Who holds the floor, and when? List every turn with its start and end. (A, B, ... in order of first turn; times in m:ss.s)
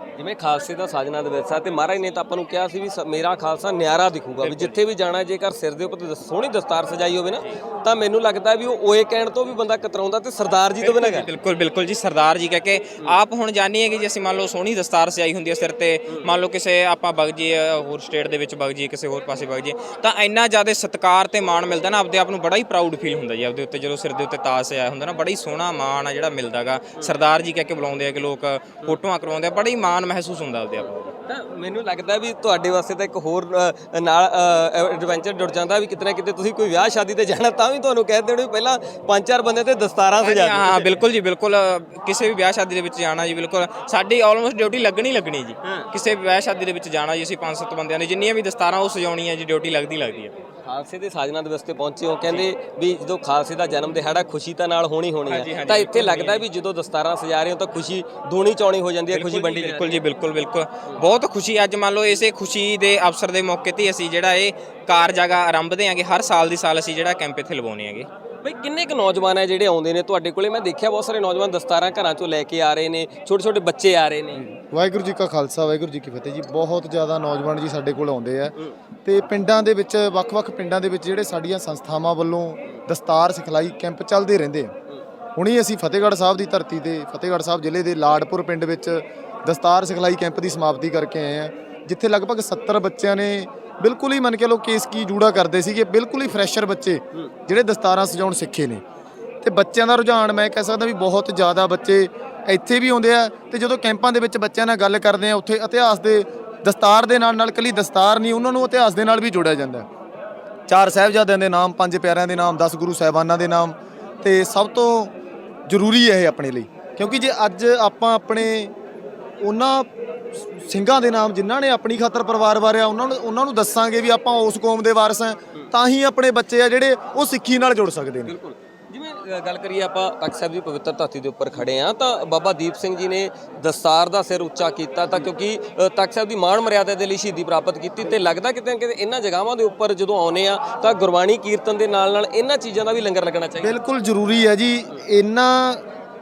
0:00.2-0:11.3 A
0:04.4-0:04.8 B
0:10.8-0:31.0 B
0:31.3-0:41.0 A
0:40.2-0:50.4 B
0:50.6-1:00.0 A
0:55.3-0:56.4 B
0:59.1-1:08.1 B
1:08.4-1:14.5 A
1:14.5-1:18.5 C
1:19.0-1:24.7 C
1:25.4-1:38.8 C
1:39.4-1:49.9 C
1:50.7-1:55.1 C
1:55.7-1:58.7 C
1:59.4-2:08.3 C
2:08.3-2:23.8 A
2:23.6-2:25.8 C